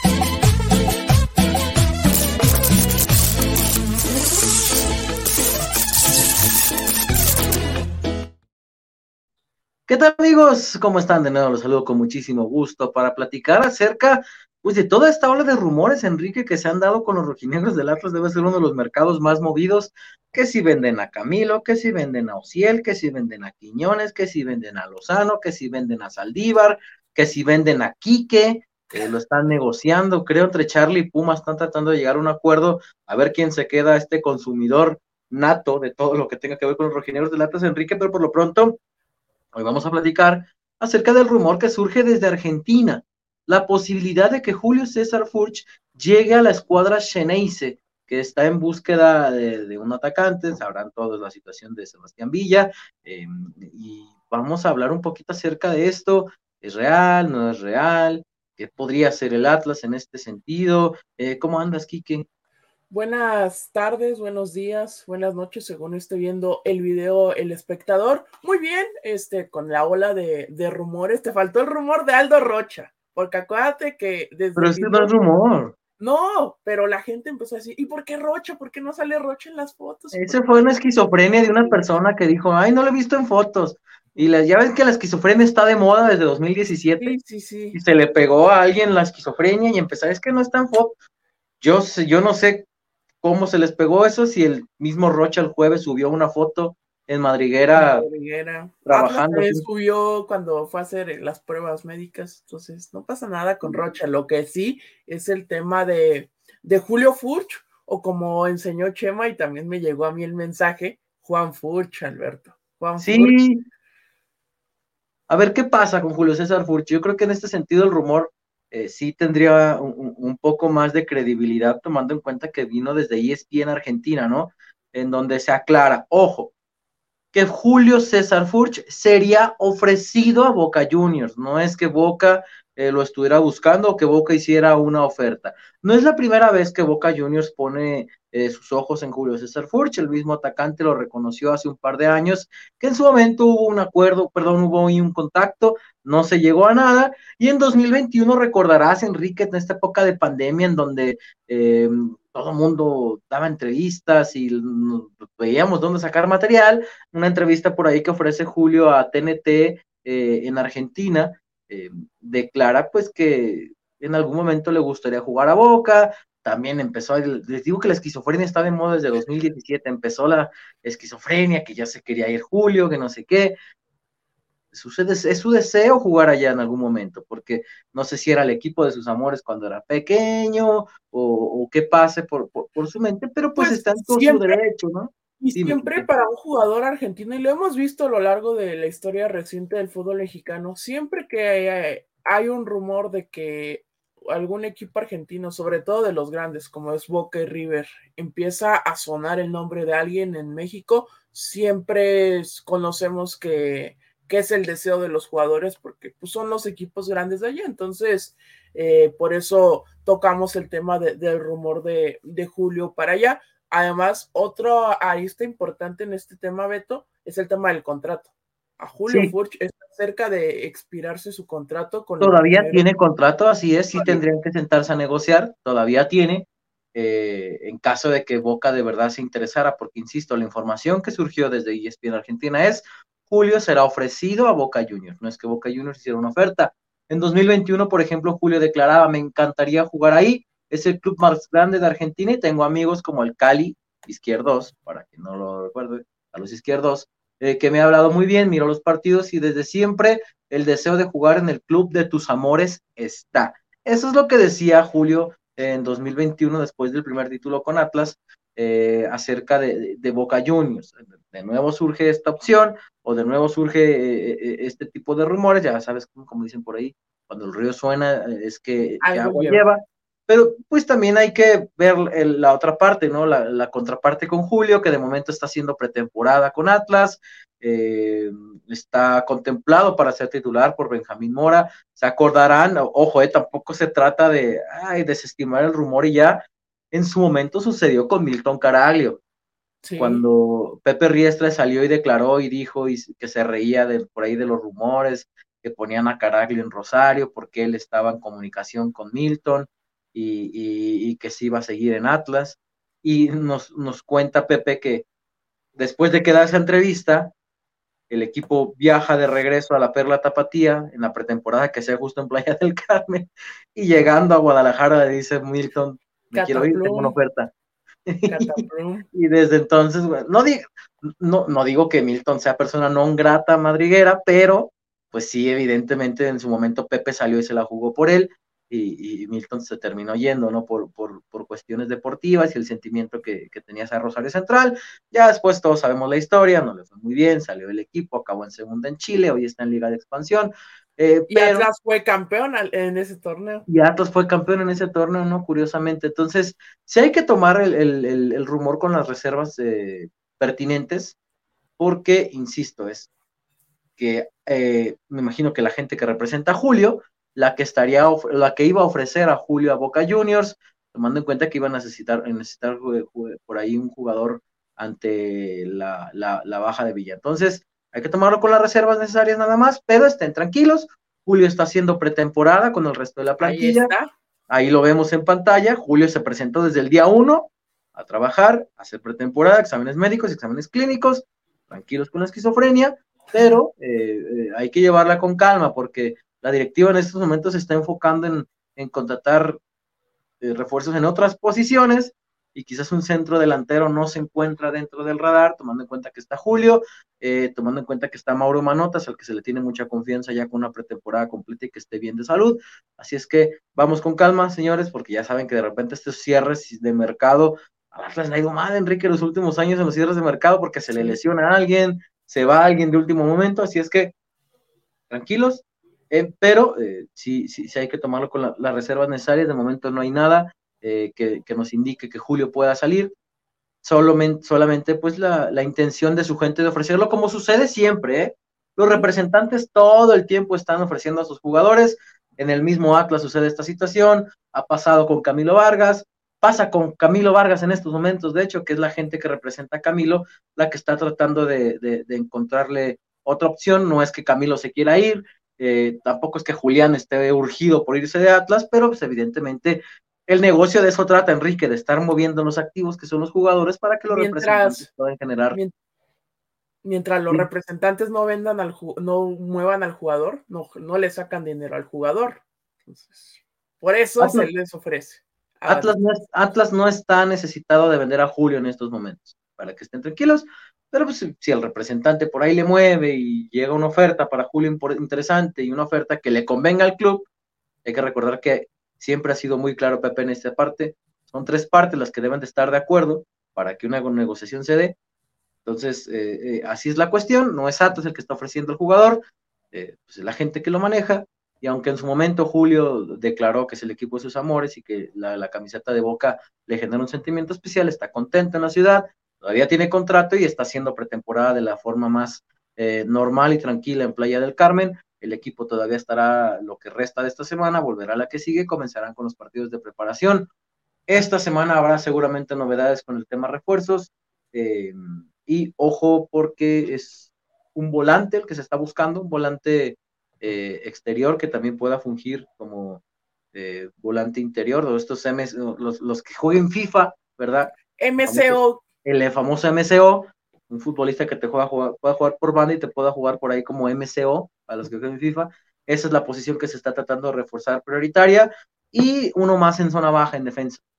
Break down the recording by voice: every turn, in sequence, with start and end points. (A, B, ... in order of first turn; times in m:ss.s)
0:09.9-0:38.8 A
0:39.5-1:02.3 A
1:02.9-1:15.2 B
1:14.6-1:15.8 A
1:16.0-1:20.7 B
1:20.1-1:27.2 A
1:21.4-1:21.8 B
1:27.0-1:27.8 B
1:27.7-1:31.0 A
1:31.6-1:32.7 A
1:33.2-1:38.0 A
1:37.8-1:53.4 B
1:38.9-1:39.6 A
1:43.6-1:44.0 A
1:53.0-1:53.6 A
1:55.3-2:06.5 A
2:07.3-2:53.6 A
2:54.7-3:06.1 A
3:03.6-3:04.6 B
3:05.4-3:42.9 B
3:39.1-3:39.3 A
3:42.2-4:49.2 A
3:43.9-3:44.2 B
4:29.0-4:29.6 B
4:49.8-4:50.2 B
4:50.0-5:05.0 A
5:05.8-5:07.3 A
5:08.1-5:17.5 A
5:16.3-5:17.2 B
5:18.1-5:18.6 A
5:18.3-5:19.1 B
5:19.1-5:41.7 A
5:41.3-5:43.7 B
5:43.7-5:51.2 A
5:51.8-5:53.1 A
5:54.0-6:13.9 A
6:13.4-6:14.1 B
6:14.5-6:29.6 A
6:23.3-6:23.6 B
6:30.4-6:54.2 A
6:50.9-6:51.2 B
6:55.1-7:03.1 A
7:03.8-7:35.6 A
7:34.1-7:34.9 B
7:36.8-7:46.0 B
7:44.2-7:44.5 A
7:45.7-7:57.3 A
7:57.8-8:05.0 A
8:05.6-8:30.5 A
8:31.1-8:43.0 A
8:43.5-9:00.8 A
8:48.0-8:48.8 B